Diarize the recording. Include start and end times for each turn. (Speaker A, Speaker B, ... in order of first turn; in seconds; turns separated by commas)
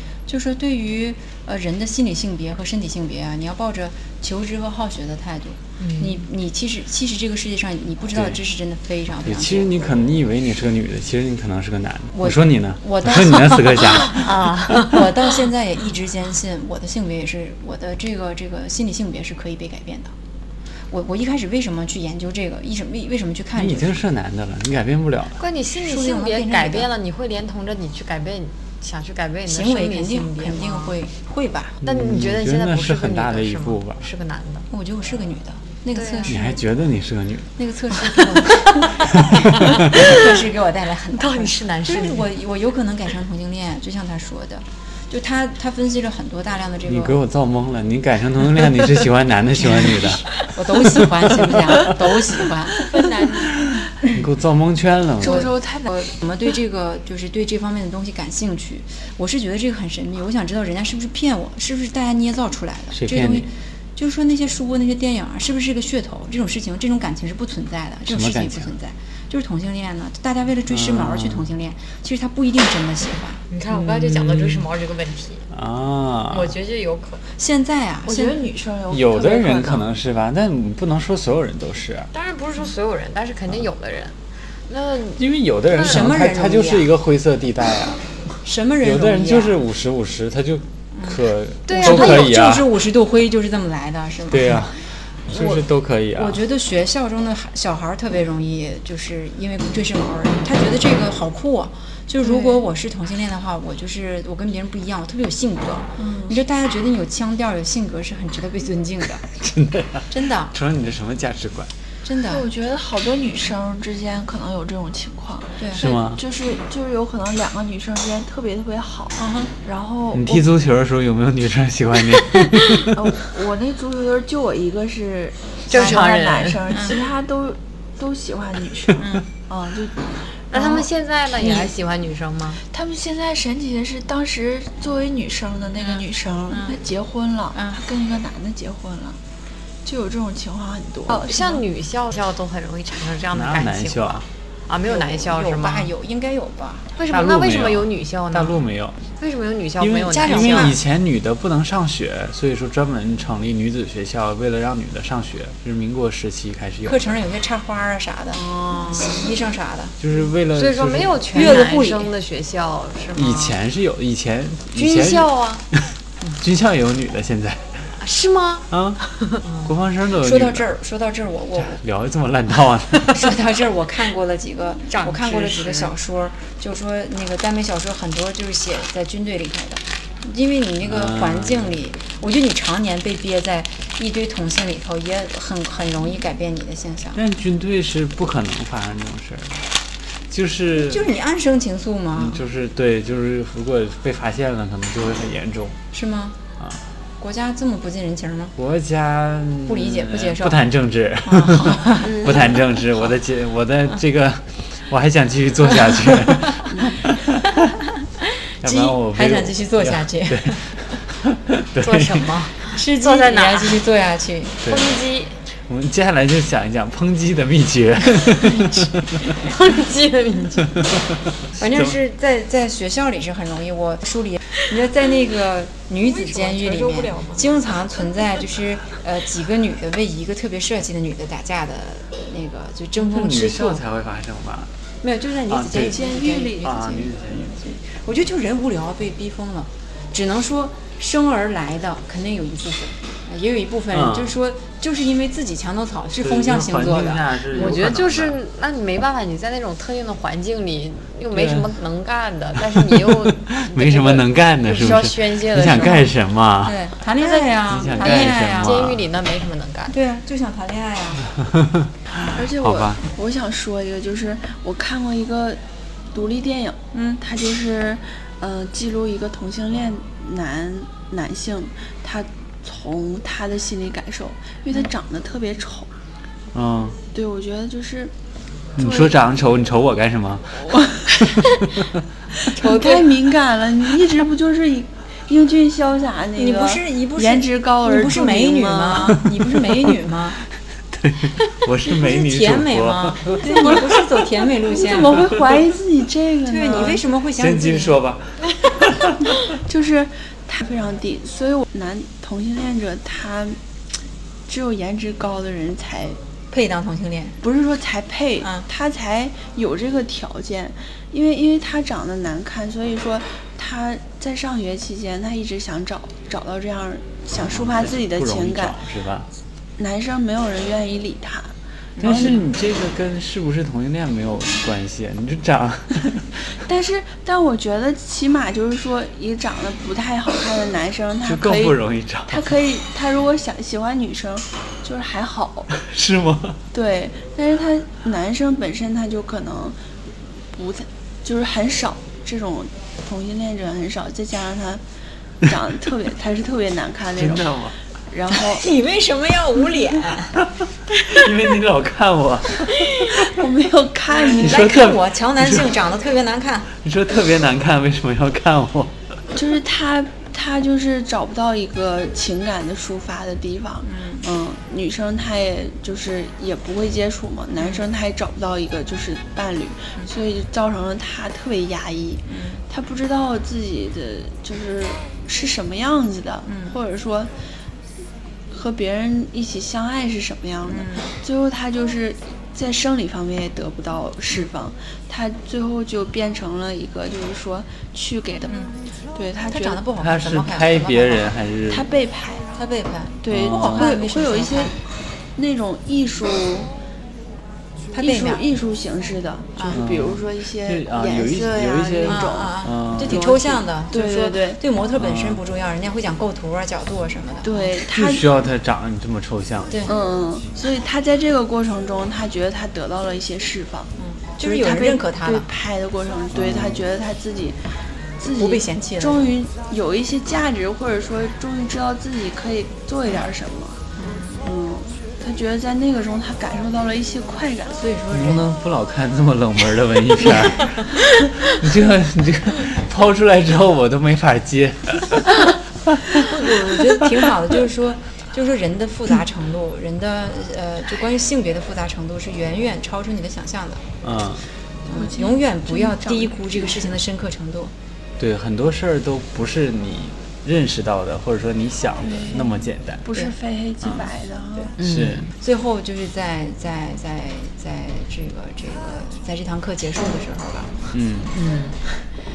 Speaker A: 0.3-9.7, Speaker B: 5.8-6.2, Speaker C: 8.1-8.4, Speaker C: 9.2-14.9, Speaker A: 12.1-20.1, Speaker B: 14.1-15.1, Speaker A: 20.9-24.0, Speaker C: 23.6-25.4, Speaker B: 25.4-31.0, Speaker A: 25.8-26.9, Speaker A: 29.5-31.8, Speaker C: 31.8-34.1, Speaker B: 31.8-34.7, Speaker A: 34.7-36.6, Speaker B: 35.9-36.3, Speaker C: 36.2-37.6, Speaker A: 37.6-47.2, Speaker B: 38.0-38.9, Speaker C: 39.3-39.8, Speaker B: 39.5-40.5, Speaker B: 41.1-42.3, Speaker C: 46.9-52.4, Speaker A: 49.9-53.5, Speaker B: 53.0-53.4, Speaker C: 53.4-55.5, Speaker D: 55.2-55.9, Speaker A: 55.2-73.4, Speaker C: 62.9-63.5, Speaker C: 68.0-68.7, Speaker C: 70.7-71.5, Speaker B: 73.5-75.5, Speaker C: 73.7-74.7, Speaker C: 75.5-76.6, Speaker B: 76.3-77.2, Speaker A: 77.3-78.4, Speaker D: 78.0-79.8, Speaker C: 78.9-82.1, Speaker B: 82.1-85.2, Speaker C: 85.2-92.7, Speaker B: 85.8-86.0, Speaker A: 85.8-86.9, Speaker A: 88.4-89.6, Speaker A: 90.9-94.7, Speaker B: 91.7-92.3, Speaker C: 94.3-96.4, Speaker A: 95.3-109.2, Speaker D: 102.2-102.6, Speaker D: 106.0-106.3, Speaker C: 109.3-111.7, Speaker A: 110.1-110.5, Speaker A: 112.0-112.5, Speaker D: 112.3-120.5, Speaker A: 115.6-115.8, Speaker C: 115.7-116.2, Speaker A: 119.2-119.5, Speaker C: 120.1-122.8, Speaker D: 122.9-130.1, Speaker B: 125.7-126.8, Speaker A: 125.7-126.0, Speaker A: 126.7-127.0, Speaker A: 128.9-129.3, Speaker B: 130.5-132.6, Speaker A: 130.5-130.9, Speaker A: 131.4-131.7, Speaker D: 132.7-139.2, Speaker A: 135.8-136.8, Speaker A: 137.5-137.8, Speaker D: 139.8-141.6, Speaker B: 141.1-145.9, Speaker C: 143.3-144.2, Speaker A: 144.8-146.9, Speaker B: 146.9-150.7, Speaker C: 147.1-149.0, Speaker C: 149.8-157.2, Speaker A: 150.1-150.8, Speaker A: 156.8-159.9, Speaker B: 158.3-159.3, Speaker C: 160.0-161.6, Speaker B: 160.5-163.6, Speaker A: 161.3-162.1, Speaker C: 163.1-165.8, Speaker B: 164.7-165.6, Speaker C: 166.4-167.9, Speaker B: 168.0-168.7, Speaker C: 168.7-170.7, Speaker B: 169.3-169.7, Speaker A: 170.2-171.8, Speaker C: 171.6-173.3, Speaker A: 173.1-187.2, Speaker B: 174.9-175.9, Speaker C: 180.8-181.8, Speaker C: 187.1-191.1, Speaker A: 190.8-192.4, Speaker C: 192.1-195.8, Speaker A: 195.9-196.4, Speaker A: 197.2-198.5, Speaker C: 198.6-207.4, Speaker A: 199.7-200.7, Speaker A: 201.2-202.2, Speaker D: 202.0-202.6, Speaker A: 208.6-210.7, Speaker C: 208.6-212.5, Speaker B: 211.8-213.8, Speaker A: 212.7-214.7, Speaker C: 214.6-214.9, Speaker B: 214.7-215.4, Speaker C: 215.7-219.5, Speaker B: 219.3-220.8, Speaker C: 220.8-222.0, Speaker A: 221.6-233.8, Speaker D: 226.1-227.4, Speaker C: 232.9-234.7, Speaker A: 235.0-247.9, Speaker C: 235.5-236.0, Speaker D: 235.7-236.8, Speaker C: 236.6-237.6, Speaker C: 243.9-244.3, Speaker C: 246.2-248.4, Speaker B: 247.5-256.1, Speaker C: 251.3-251.8, Speaker C: 252.6-256.8, Speaker A: 256.6-258.8, Speaker C: 257.6-259.1, Speaker B: 258.0-259.9, Speaker A: 259.9-261.3, Speaker C: 261.5-263.0, Speaker D: 262.3-265.6, Speaker D: 266.1-275.9, Speaker A: 266.9-267.2, Speaker C: 276.5-277.0, Speaker D: 277.1-278.1, Speaker D: 278.7-279.3, Speaker C: 278.8-281.9, Speaker D: 280.6-281.4, Speaker D: 282.4-289.2, Speaker B: 282.5-283.1, Speaker A: 286.4-290.4, Speaker C: 290.9-294.0, Speaker A: 291.9-295.4, Speaker D: 293.4-293.9, Speaker D: 294.7-297.0, Speaker C: 295.2-295.6, Speaker A: 296.4-298.0, Speaker C: 297.4-299.3, Speaker D: 299.6-303.6, Speaker D: 304.5-306.2, Speaker A: 306.5-307.4, Speaker D: 307.4-318.8, Speaker A: 308.4-308.6, Speaker C: 317.3-319.3, Speaker D: 319.8-322.4, Speaker A: 322.0-322.3, Speaker C: 322.0-326.5, Speaker D: 326.6-335.7, Speaker C: 331.2-332.5, Speaker C: 335.8-336.6, Speaker D: 336.7-339.8, Speaker D: 340.5-344.8, Speaker D: 345.4-348.6, Speaker C: 347.1-347.8, Speaker A: 348.4-350.4, Speaker C: 351.1-353.2, Speaker A: 352.8-353.3, Speaker D: 353.1-354.7, Speaker A: 354.1-356.7, Speaker C: 354.3-355.7, Speaker C: 356.7-359.0, Speaker D: 359.3-377.3, Speaker A: 363.8-364.3, Speaker A: 367.6-367.8, Speaker A: 372.3-372.6, Speaker A: 376.4-376.8, Speaker D: 378.5-388.5, Speaker A: 380.6-381.1, Speaker A: 388.5-388.8, Speaker D: 389.1-389.8, Speaker A: 389.5-391.3, Speaker C: 390.0-391.9, Speaker D: 391.7-392.5, Speaker A: 392.5-394.8, Speaker D: 393.2-394.8, Speaker C: 393.3-393.9, Speaker D: 395.3-396.7, Speaker D: 397.9-404.6, Speaker A: 397.9-398.4, Speaker A: 399.6-399.8, Speaker C: 399.7-403.2, Speaker A: 402.1-407.7, Speaker C: 405.0-405.4, Speaker D: 407.4-408.2, Speaker C: 407.9-409.8, Speaker A: 409.7-409.9, Speaker D: 409.9-417.6, Speaker A: 414.0-415.5, Speaker C: 416.3-416.9, Speaker D: 418.2-423.8, Speaker A: 418.3-419.2, Speaker A: 423.9-424.5, Speaker D: 424.4-427.8, Speaker A: 427.7-428.4, Speaker C: 428.1-436.5, Speaker A: 436.3-443.9, Speaker C: 444.0-444.4, Speaker A: 444.9-447.7, Speaker D: 444.9-447.0, Speaker C: 448.2-453.1, Speaker D: 452.0-454.8, Speaker C: 453.8-454.1, Speaker C: 454.8-455.3, Speaker B: 454.8-455.3, Speaker A: 455.3-460.9, Speaker C: 460.9-461.3, Speaker B: 461.3-461.8